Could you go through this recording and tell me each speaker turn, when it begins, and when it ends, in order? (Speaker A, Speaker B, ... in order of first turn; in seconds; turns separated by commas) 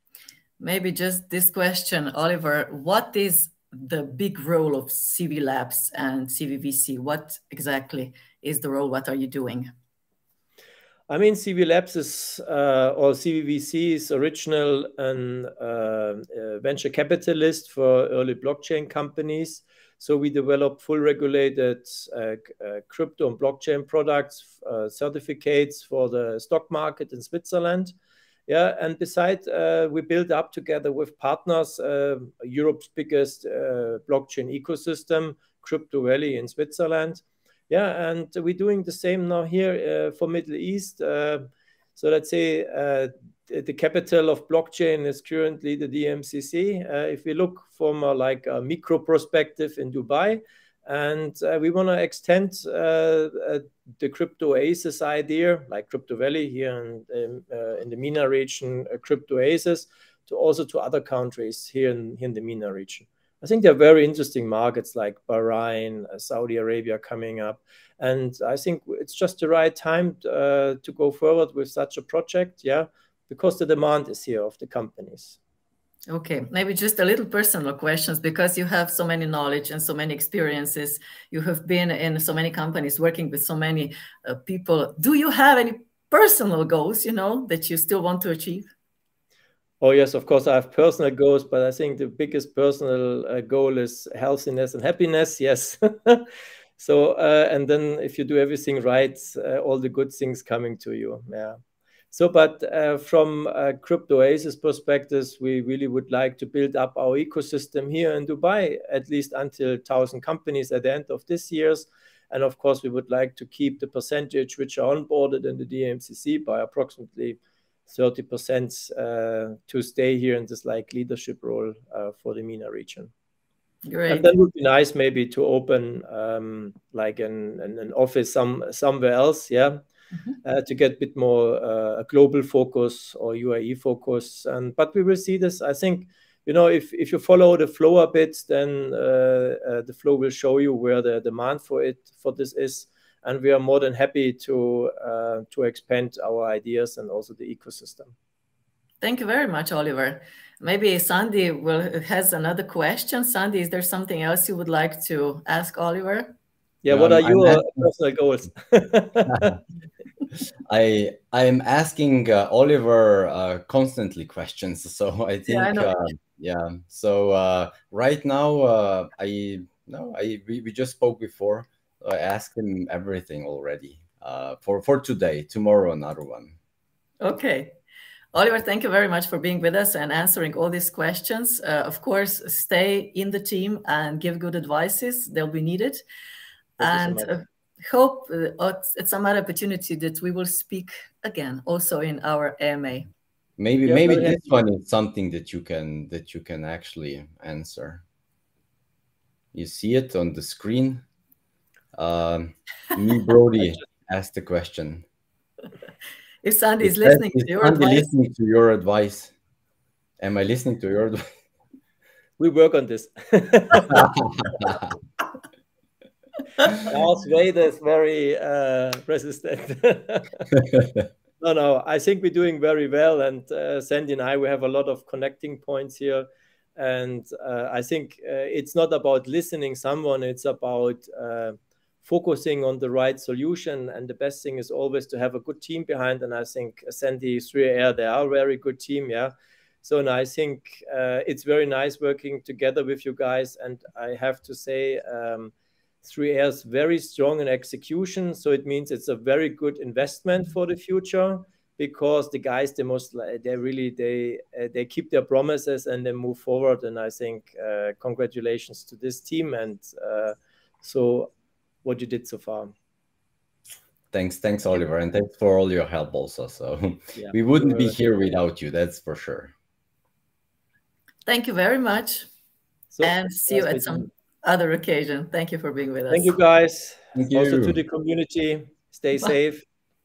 Speaker A: 0.6-9.7, Speaker B: 11.1-27.9, Speaker B: 28.5-75.4, Speaker A: 76.1-88.7, Speaker B: 89.8-96.3, Speaker B: 96.8-101.6, Speaker B: 102.1-123.1, Speaker A: 123.9-124.3, Speaker B: 124.1-129.8, Speaker B: 130.4-148.1, Speaker A: 149.0-156.3, Speaker B: 156.8-159.6, Speaker C: 156.9-157.8, Speaker C: 160.7-176.6, Speaker A: 165.5-165.9, Speaker A: 177.2-177.7, Speaker A: 178.3-186.0, Speaker B: 186.8-187.3, Speaker A: 186.8-193.1, Speaker C: 193.6-198.0, Speaker B: 193.9-194.4, Speaker C: 199.5-201.0, Speaker C: 201.9-205.0, Speaker A: 206.4-208.1, Speaker C: 206.8-209.3, Speaker C: 210.2-211.2, Speaker B: 212.4-214.1, Speaker C: 213.9-214.8, Speaker B: 216.8-220.6, Speaker C: 220.7-221.0, Speaker B: 221.4-261.3, Speaker B: 261.8-262.7, Speaker C: 264.1-269.5, Speaker B: 267.2-267.9, Speaker A: 271.3-272.3, Speaker B: 272.9-274.1, Speaker A: 273.0-276.3, Speaker B: 276.1-279.6, Speaker C: 277.2-277.8